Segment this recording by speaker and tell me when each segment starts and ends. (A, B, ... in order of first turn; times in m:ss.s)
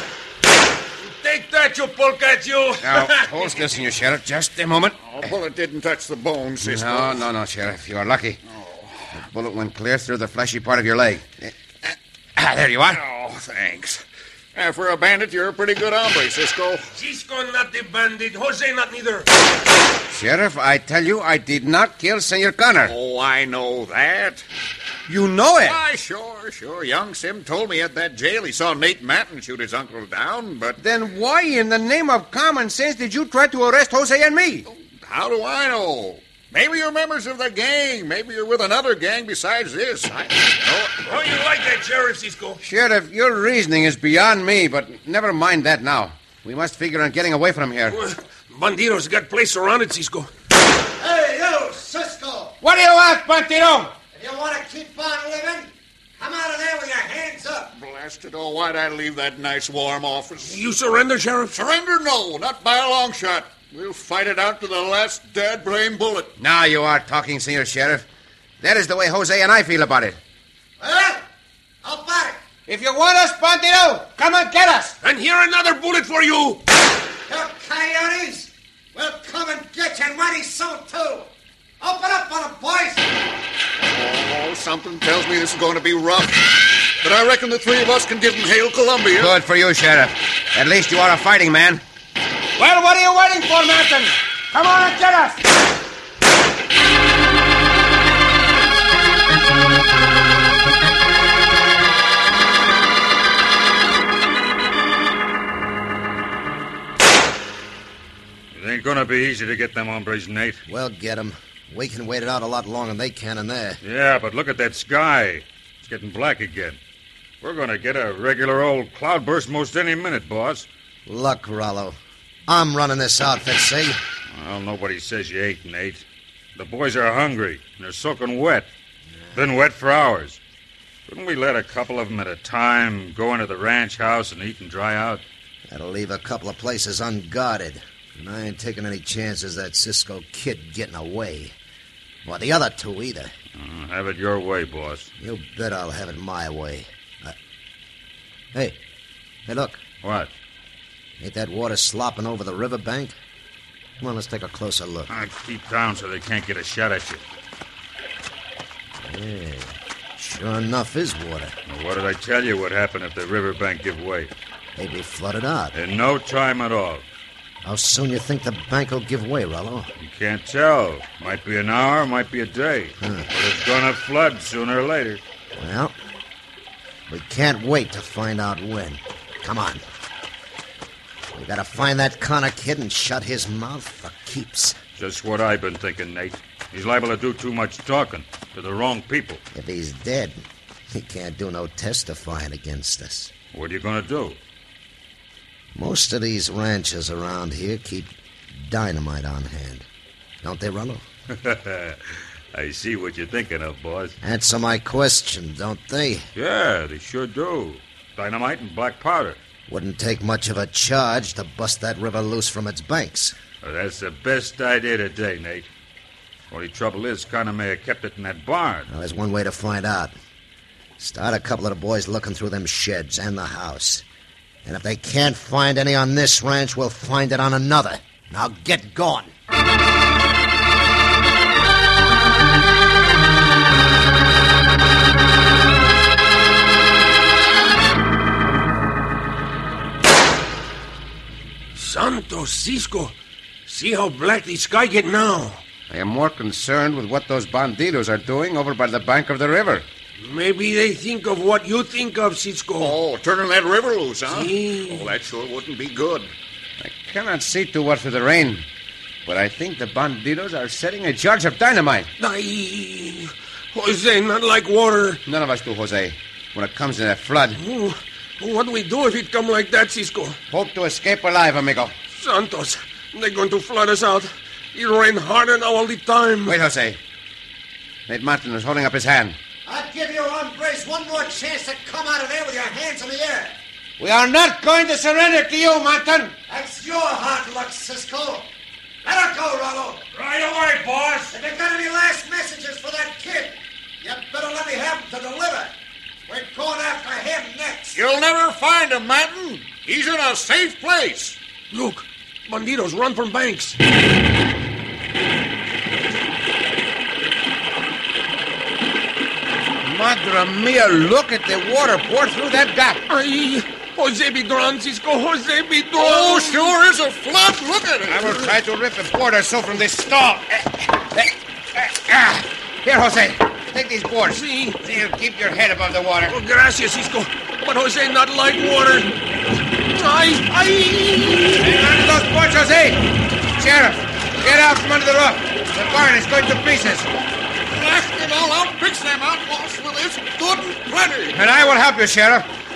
0:01.0-0:03.3 A
0:02.8-0:05.3 B
0:05.1-0:07.2 C
0:06.6-0:08.4 B
0:09.2-0:11.5 B
0:12.4-0:13.0 B
0:12.9-0:14.0 C
0:14.6-0:16.8 C
0:16.9-0:19.3 A
0:20.1-0:22.9 B
0:22.8-0:24.4 C
0:25.1-0:25.8 B
0:25.6-0:30.8 C
0:30.8-0:34.7 B
0:34.7-0:41.0 C
0:41.0-0:42.6 A
0:42.6-0:48.0 B
0:47.9-0:50.3 A
0:51.0-0:52.6 D
0:52.6-0:54.0 B
0:54.1-0:55.7 D
0:56.2-0:57.7 D
0:57.8-1:00.6 C
1:00.5-1:01.6 A
1:01.5-1:06.3 C
1:06.4-1:08.1 B
1:08.6-1:10.2 B
1:10.8-1:11.2 D
1:11.8-1:12.4 D
1:12.7-1:15.0 B
1:15.0-1:16.6 A
1:17.3-1:21.3 D
1:21.8-1:23.0 D
1:23.8-1:29.4 C
1:29.2-1:31.8 B
1:32.6-1:35.4 B
1:48.5-1:50.6 E
1:50.7-1:53.8 D
1:53.8-1:56.8 E
1:57.4-2:00.7 E
2:01.1-2:04.0 D
2:04.3-2:06.0 E
2:06.6-2:08.7 E
2:09.4-2:10.4 E
2:11.1-2:15.2 E
2:15.7-2:21.6 D
2:22.2-2:23.3 D
2:23.6-2:25.1 E
2:25.2-2:27.4 D
2:29.5-2:29.8 D
2:30.0-2:30.3 E
2:31.2-2:33.1 D
2:34.0-2:35.1 D
2:35.1-2:37.2 E
2:39.0-2:41.6 D
2:41.7-2:44.3 E
2:44.8-2:45.8 D
2:45.7-2:47.1 E
2:47.6-2:49.9 D
2:50.0-2:55.2 E
2:53.0-2:53.3 D
2:55.6-2:56.0 D
2:57.1-2:59.8 D
3:01.3-3:04.8 D
3:05.0-3:09.4 E
3:09.5-3:13.3 D
3:13.5-3:14.4 E
3:15.8-3:19.9 D
3:20.4-3:21.0 D
3:21.3-3:22.0 E
3:22.5-3:24.2 E
3:24.2-3:26.3 D
3:26.4-3:29.4 E
3:29.7-3:33.4 D
3:33.6-3:35.7 E
3:36.5-3:38.9 E
3:38.9-3:40.1 D
3:41.0-3:44.0 D
3:44.6-3:49.3 D
4:01.8-4:03.2 A
4:03.7-4:05.6 A
4:05.9-4:09.9 B
4:10.2-4:12.9 A
4:12.8-4:16.3 C
4:14.3-4:15.0 A
4:16.8-4:18.7 B
4:19.3-4:22.1 B
4:22.2-4:25.2 A
4:25.3-4:27.6 B
4:27.6-4:30.4 A
4:30.5-4:31.9 B
4:32.1-4:36.6 A
4:36.5-4:37.0 B
4:38.1-4:39.4 B
4:39.7-4:43.6 D
4:44.0-4:46.4 B
4:46.5-4:48.5 D
4:49.0-4:50.0 D
4:50.1-4:51.2 E
4:51.2-4:55.7 D
4:56.3-4:57.9 D
4:58.0-5:01.4 C
5:01.7-5:03.8 A
5:09.8-5:13.0 B
5:13.1-5:16.6 A
5:16.0-5:18.4 C
5:18.1-5:26.4 B
5:24.3-5:24.8 A
5:26.3-5:29.1 A
5:29.9-5:31.7 A
5:31.6-5:37.1 B
5:37.7-5:41.4 C
5:41.3-5:42.5 B